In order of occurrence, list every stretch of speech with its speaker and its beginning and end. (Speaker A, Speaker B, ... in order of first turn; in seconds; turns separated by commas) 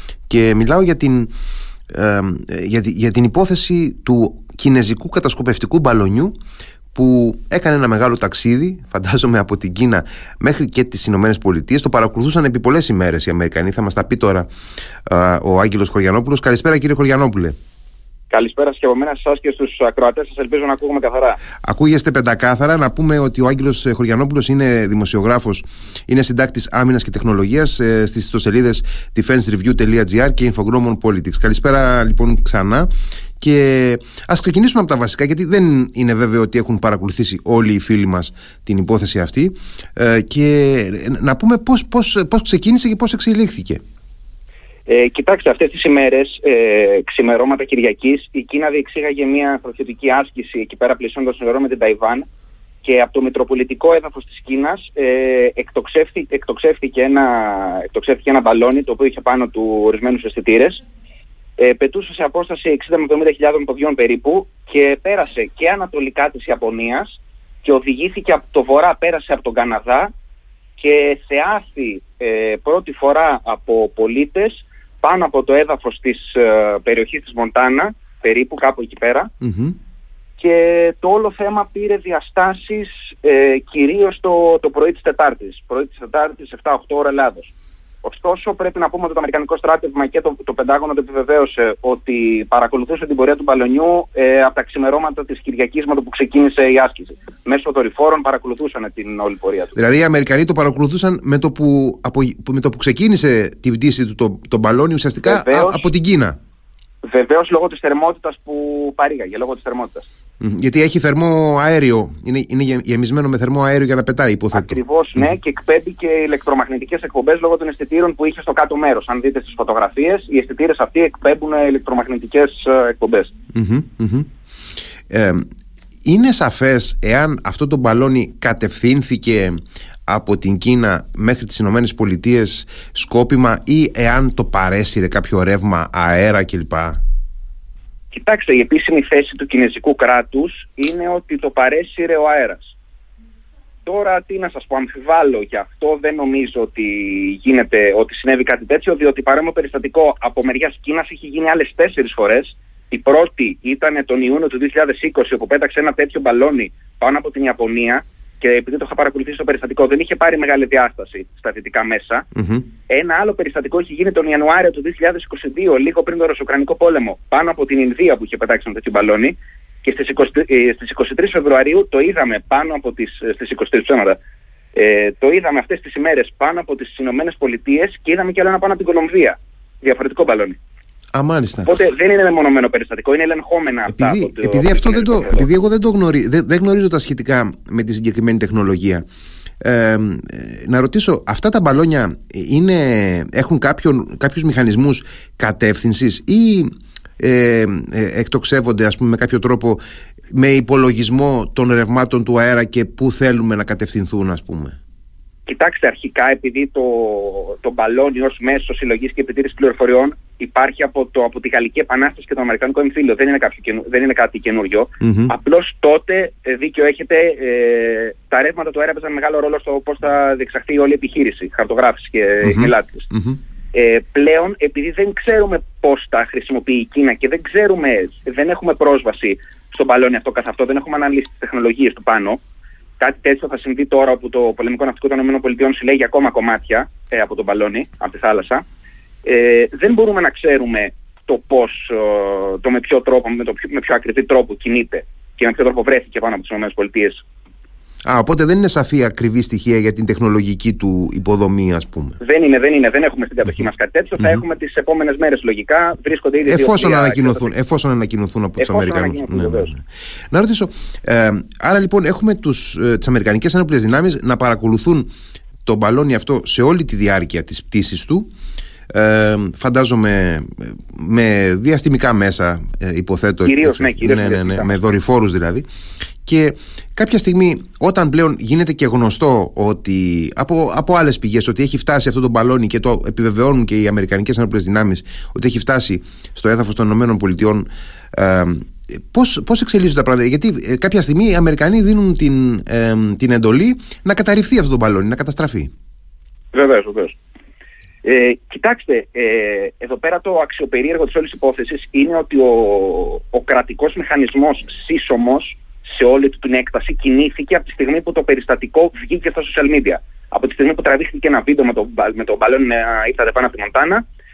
Speaker A: 0.3-1.3, Speaker A: 1.9-6.3, Speaker A: 6.9-14.5, Speaker A: 15.1-17.6, Speaker B: 18.3-21.4, Speaker A: 21.6-43.8, Speaker B: 44.9-52.2, Speaker B: 52.8-60.8, Speaker B: 61.6-70.1, Speaker B: 70.8-79.3, Speaker A: 79.4-79.8, Speaker B: 80.4-87.5, Speaker B: 88.0-99.7, Speaker A: 99.7-106.3, Speaker B: 105.2-105.8, Speaker B: 107.0-110.1, Speaker A: 110.4-114.8, Speaker B: 114.5-123.3, Speaker A: 123.5-124.3, Speaker A: 125.1-125.4, Speaker A: 126.1-137.0, Speaker B: 138.1-142.8, Speaker B: 143.8-162.2, Speaker A: 162.3-162.7, Speaker B: 162.9-174.2, Speaker B: 174.8-180.6, Speaker A: 181.1-181.7, Speaker B: 181.6-185.5, Speaker A: 183.9-189.0, Speaker A: 189.6-196.7, Speaker A: 197.2-199.8, Speaker A: 200.3-204.8, Speaker B: 205.5-223.1, Speaker A: 215.0-215.3, Speaker A: 222.4-223.4, Speaker B: 223.7-232.4, Speaker B: 233.0-238.6, Speaker B: 239.2-247.2, Speaker A: 248.1-252.2, Speaker B: 252.2-257.5, Speaker A: 256.4-265.1, Speaker B: 258.6-259.7, Speaker A: 265.6-268.3, Speaker A: 268.9-275.7, Speaker B: 273.4-274.8, Speaker A: 276.2-295.7, Speaker B: 296.5-297.2, Speaker B: 298.0-314.1